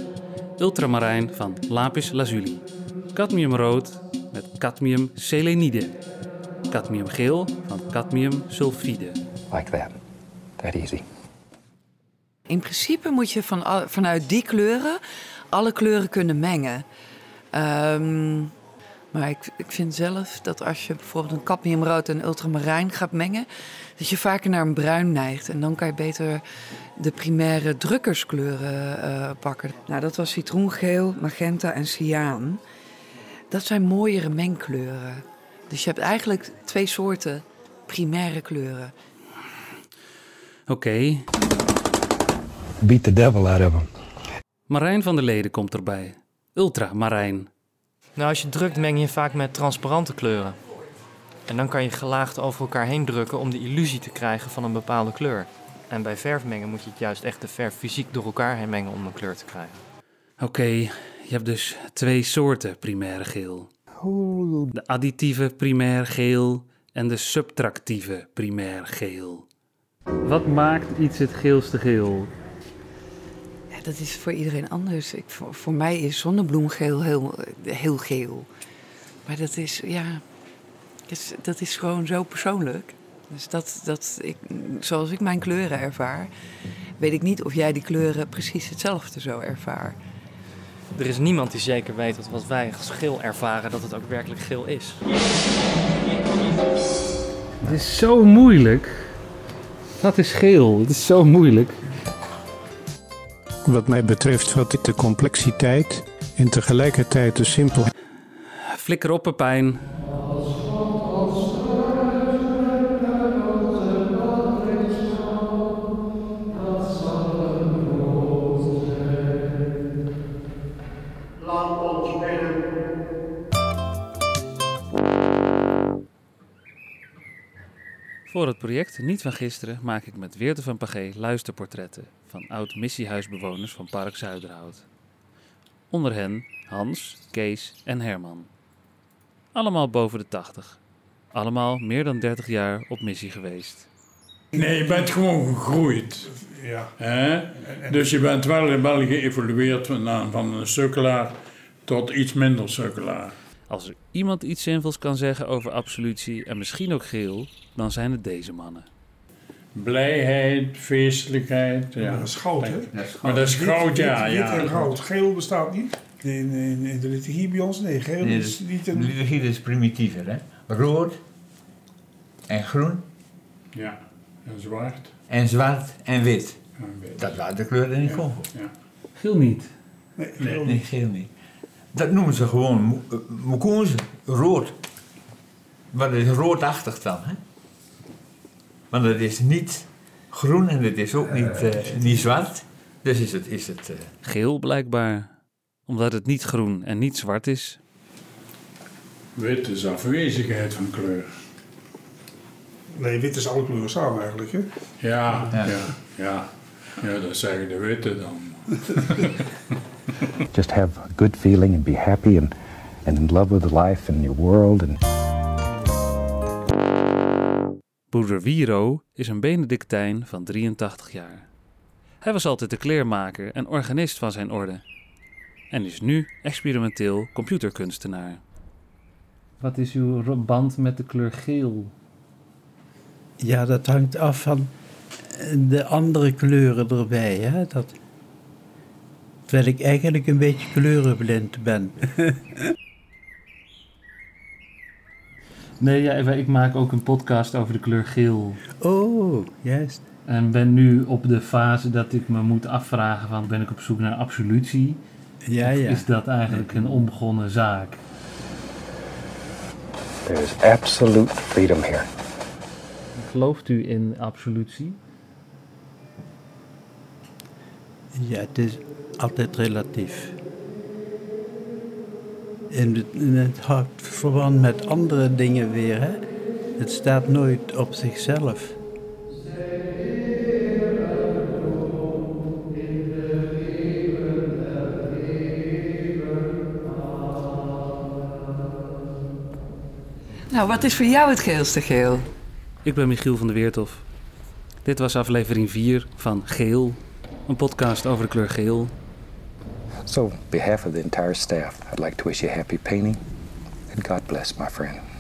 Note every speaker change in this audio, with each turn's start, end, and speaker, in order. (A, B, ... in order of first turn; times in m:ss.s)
0:00.6-0:05.9 A
0:06.7-0:09.2 A
0:09.5-0:10.0 B
0:10.6-0:11.0 B
0:12.5-0:15.0 C
0:15.5-0:16.8 C
0:17.5-0:18.5 C
0:19.1-0:26.4 C
0:27.0-0:32.6 C
0:33.5-0:38.9 C
0:40.7-0:41.3 A
0:42.8-0:43.9 B
0:44.7-0:47.5 A
0:48.2-0:50.6 D
0:51.5-0:59.8 D
1:00.4-1:03.7 A
1:04.7-1:09.4 A
1:10.2-1:12.3 A
1:13.7-1:18.5 C
1:19.3-1:20.2 C
1:21.1-1:26.3 C
1:27.0-1:30.0 C
1:31.0-1:35.0 D
1:37.6-1:38.9 A
1:40.0-1:41.8 A
1:43.7-1:47.9 E
1:48.7-1:49.8 A
2:08.3-2:14.9 A
2:15.9-2:18.5 A
2:19.5-2:20.8 A
2:21.3-2:23.9 A
2:24.5-2:25.1 F
2:25.1-2:26.1 G
2:26.2-2:26.9 F
2:27.0-2:33.3 G
2:27.5-2:28.2 F
2:33.7-2:38.9 A
2:39.8-2:42.2 G
2:41.9-2:49.2 F
2:43.0-2:43.6 H
2:43.2-2:44.7 G
2:48.2-2:51.2 H
2:52.5-2:53.0 H
2:53.7-2:55.1 G
2:55.3-2:56.6 H
2:56.8-2:57.3 G
2:57.2-2:58.4 H
2:59.2-2:59.7 A
3:00.2-3:00.9 F
3:00.6-3:01.3 H
3:01.9-3:04.8 H
3:05.9-3:07.4 H
3:08.9-3:14.1 H
3:14.2-3:15.3 A
3:15.9-3:17.8 A
3:19.4-3:21.3 G
3:23.0-3:24.6 F
3:25.0-3:26.5 G
3:25.5-3:25.8 H
3:27.0-3:28.6 G
3:30.5-3:32.5 B
3:33.0-3:35.0 B
3:38.1-3:41.5 A
3:42.2-3:44.8 A
3:45.7-3:48.4 A
3:49.6-3:51.9 A
3:53.4-3:54.7 I
3:55.3-3:57.9 I
3:59.5-4:02.4 I
4:05.8-4:08.6 A
4:08.8-4:10.0 I
4:10.3-4:15.0 A
4:15.5-4:16.1 I
4:15.6-4:18.0 A
4:20.3-4:22.1 B
4:23.2-4:25.0 A
4:28.2-4:30.3 I
4:32.7-4:36.2 I
4:36.8-4:38.8 I
4:50.5-4:52.3 C
4:52.8-4:54.0 A
4:54.8-4:58.9 A
5:00.1-5:03.2 B
5:03.9-5:05.0 B